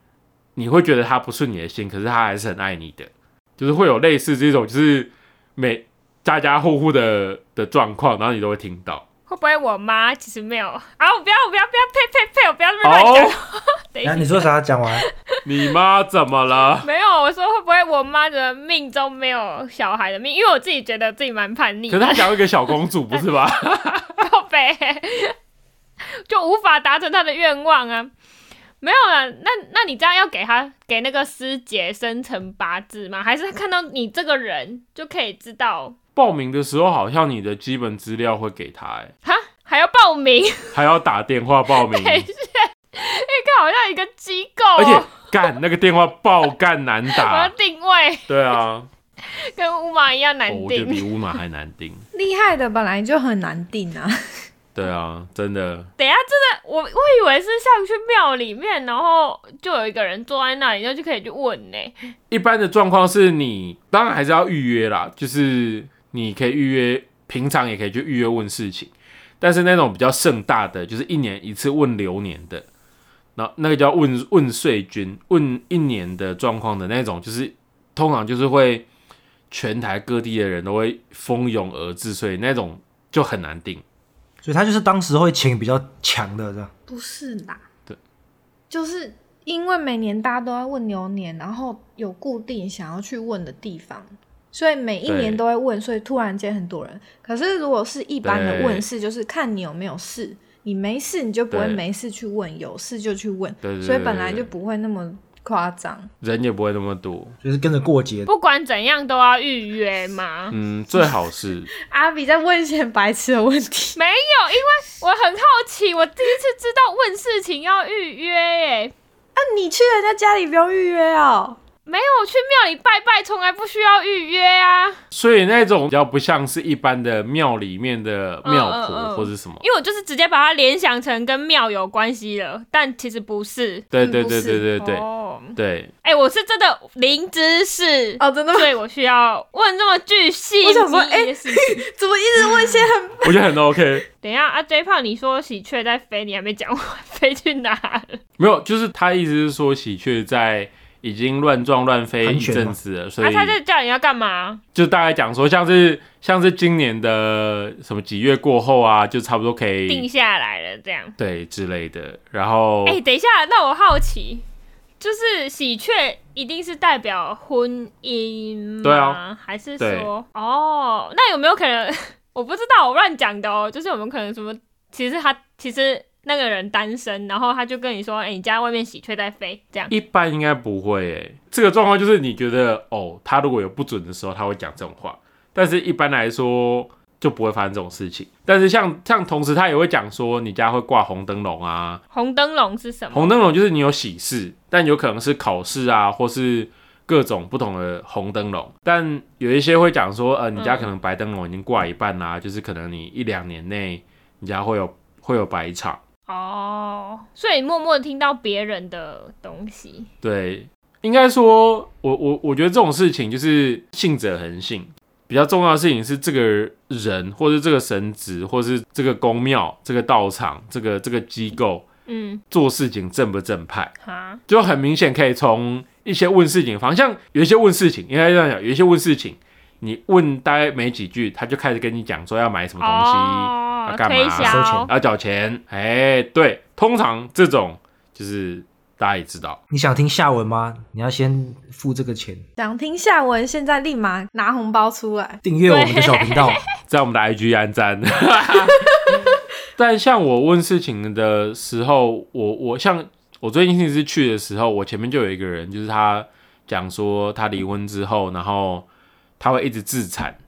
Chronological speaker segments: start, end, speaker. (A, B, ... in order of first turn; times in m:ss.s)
0:00.6-0:09.0 A
0:09.3-0:15.4 B
0:12.8-0:13.4 A
0:14.0-0:15.0 C
0:15.4-0:16.9 A
0:16.8-0:23.2 B
0:21.9-0:24.2 A
0:24.2-0:25.4 B
0:26.1-0:28.1 B
0:28.8-0:36.0 B
0:36.1-0:39.1 A
0:39.2-0:40.8 B
0:40.7-0:42.2 A
0:41.7-0:45.3 B
0:44.8-0:47.5 A
0:47.1-0:48.6 B
0:48.3-0:48.9 A
0:49.2-0:51.4 B
0:50.5-0:52.0 A
0:52.1-0:54.1 D
0:54.7-0:55.9 A
0:56.0-1:02.1 B
1:02.3-1:12.6 A
1:13.4-1:18.8 A
1:19.5-1:23.8 A
1:24.4-1:26.7 C
1:26.9-1:27.6 D
1:28.7-1:46.1 D
1:35.1-1:35.4 A
1:38.2-1:38.9 A
1:41.5-1:41.8 A
1:43.6-1:44.5 A
1:46.2-1:47.4 A
1:47.4-1:48.3 C
1:48.3-1:50.6 B
1:50.5-1:51.7 A
1:51.7-1:54.0 D
1:54.0-1:58.9 B
1:59.4-2:01.6 D
2:01.9-2:05.0 B
2:05.1-2:09.6 A
2:08.4-2:13.9 B
2:13.9-2:15.0 A
2:14.0-2:14.6 D
2:14.8-2:21.8 B
2:15.6-2:15.9 A
2:18.2-2:18.7 D
2:20.6-2:23.6 D
2:23.2-2:24.0 A
2:24.2-2:28.2 B
2:28.4-2:33.6 A
2:32.2-2:32.8 C
2:33.2-2:34.6 B
2:34.7-2:40.1 A
2:39.9-2:41.1 B
2:41.2-2:43.0 A
2:42.9-2:44.4 B
2:45.0-2:59.9 B
2:48.8-2:49.2 A
2:49.8-2:50.1 A
2:59.9-3:12.0 A
3:12.1-3:13.4 B
3:13.1-3:26.0 A
3:20.6-3:20.9 B
3:26.3-3:30.1 B
3:30.2-3:41.9 A
3:42.1-3:42.4 B
3:42.5-3:43.9 A
3:44.0-3:44.4 B
3:44.5-3:59.6 A
3:52.8-3:54.9 B
3:54.4-3:54.9 C
3:59.7-4:02.4 C
4:02.6-4:05.4 D
4:05.4-4:06.6 C
4:05.7-4:06.7 B
4:06.9-4:18.9 A
4:19.4-4:20.4 A